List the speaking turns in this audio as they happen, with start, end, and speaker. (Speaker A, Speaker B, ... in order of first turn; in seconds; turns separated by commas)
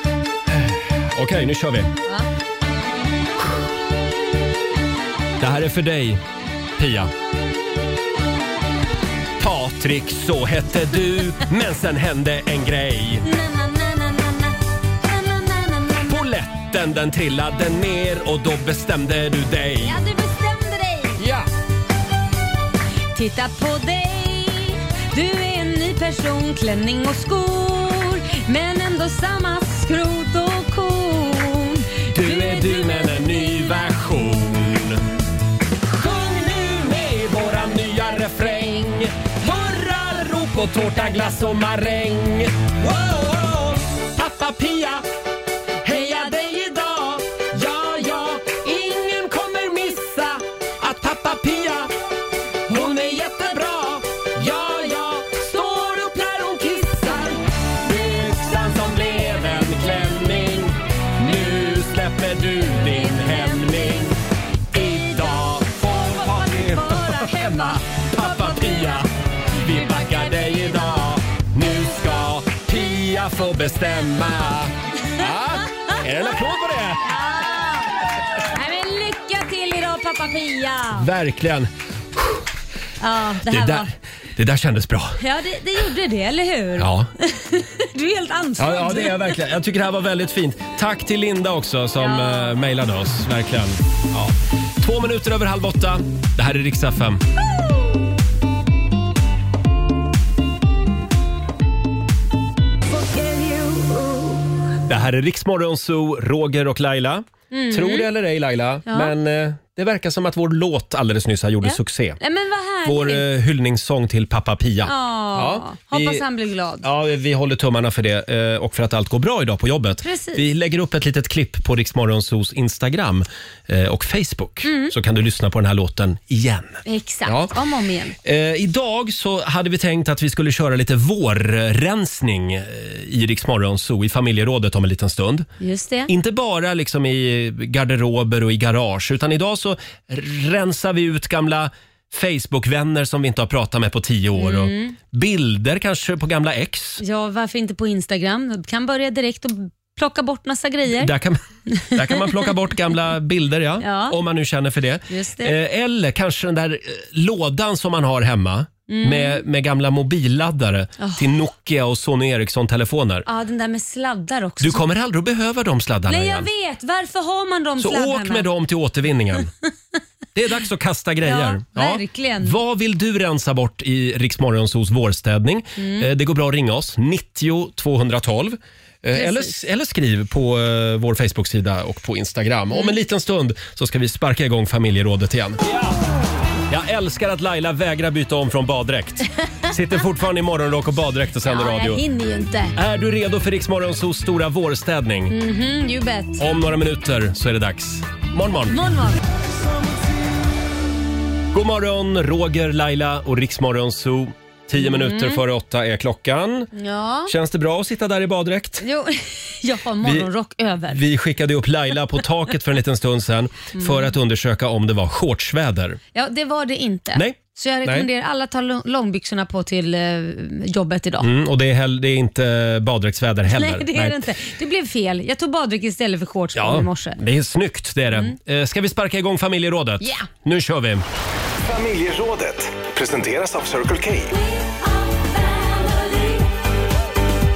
Speaker A: 0.5-1.9, Speaker A: 5.4-6.2, Speaker A: 6.8-7.1, Speaker A: 9.4-13.2, Speaker B: 13.2-16.2, Speaker A: 16.1-20.0, Speaker B: 19.8-21.2, Speaker A: 21.2-21.5, Speaker B: 23.1-33.9, Speaker A: 32.1-35.1, Speaker A: 35.8-45.1, Speaker A: 45.8-51.9, Speaker A: 52.7-64.2, Speaker B: 59.6-59.9, Speaker B: 62.8-64.1, Speaker A: 64.7-77.1, Speaker B: 64.8-69.0, Speaker B: 69.7-71.0, Speaker B: 77.0-81.1, Speaker A: 81.0-82.5, Speaker B: 83.0-83.9, Speaker A: 83.5-85.2, Speaker B: 85.2-89.3, Speaker A: 86.8-87.1, Speaker A: 88.6-97.2, Speaker B: 92.0-92.6, Speaker B: 103.0-104.3, Speaker A: 104.9-112.2, Speaker B: 107.5-108.1, Speaker B: 108.9-109.1, Speaker B: 111.6-113.3, Speaker A: 112.8-116.2, Speaker B: 114.8-116.9, Speaker A: 116.8-127.5, Speaker B: 120.0-120.4, Speaker B: 124.6-124.9, Speaker B: 126.9-128.2, Speaker A: 128.2-135.5, Speaker B: 135.6-136.1, Speaker A: 136.1-147.0, Speaker B: 144.4-145.0, Speaker B: 147.0-151.1, Speaker A: 151.0-151.4, Speaker B: 151.8-152.2, Speaker A: 151.9-163.3, Speaker B: 153.8-154.2, Speaker B: 155.1-155.5, Speaker B: 158.9-159.4, Speaker B: 161.0-161.3, Speaker B: 163.3-164.8, Speaker A: 164.6-166.5, Speaker B: 166.1-168.5, Speaker A: 167.8-169.5, Speaker A: 170.3-185.8, Speaker B: 171.2-172.6, Speaker B: 175.8-176.1, Speaker B: 179.2-179.6, Speaker A: 186.7-192.0, Speaker B: 191.4-192.8, Speaker A: 192.8-195.3, Speaker B: 195.3-196.4, Speaker A: 196.4-198.9, Speaker B: 198.7-199.2, Speaker A: 201.5-206.7, Speaker B: 204.8-205.4, Speaker B: 206.7-207.3, Speaker A: 207.3-208.8, Speaker B: 208.8-211.0, Speaker A: 210.0-210.3, Speaker A: 210.9-216.0, Speaker B: 213.7-214.1, Speaker B: 216.1-221.3, Speaker A: 217.2-218.1, Speaker A: 221.2-224.3, Speaker B: 223.5-227.2, Speaker A: 226.6-231.1, Speaker B: 230.0-230.3, Speaker C: 231.6-234.3, Speaker B: 235.0-236.4